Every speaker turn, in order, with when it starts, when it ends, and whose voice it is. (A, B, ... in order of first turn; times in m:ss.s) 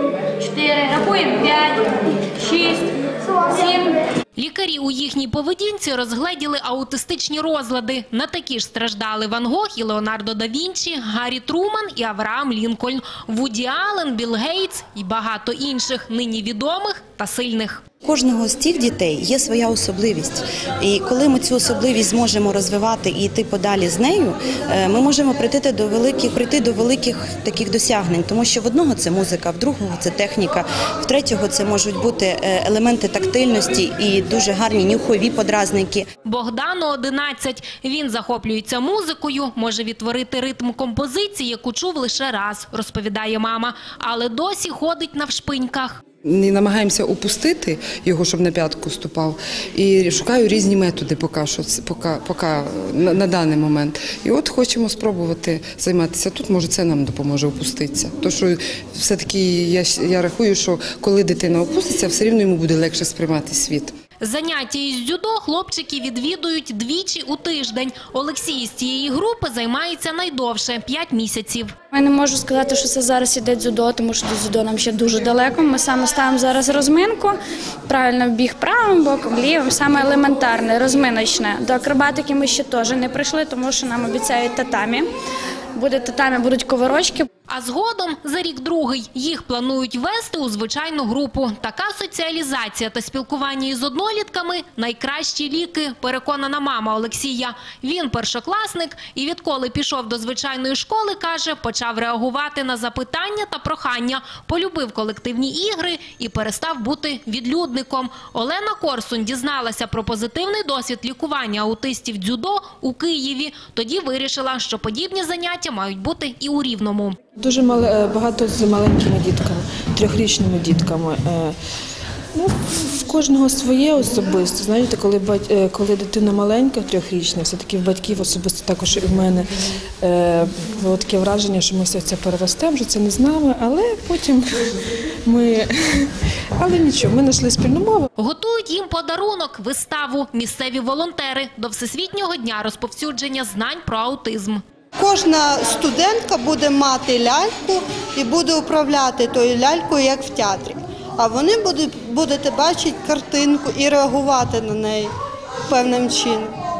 0:00.4-0:04.0 A
0:04.4-0:17.8 B
0:18.0-0:36.0 C
0:36.2-0:46.0 B
0:46.2-1:04.0 D
1:04.2-1:11.7 B
1:11.9-1:17.4 E
1:17.9-1:25.1 E
1:25.7-1:27.3 E
1:27.5-1:57.2 B
1:57.4-2:01.5 F
2:02.3-2:09.5 F
2:10.0-2:18.1 F
2:18.2-2:24.6 B
2:25.0-2:35.1 G
2:35.7-2:36.5 G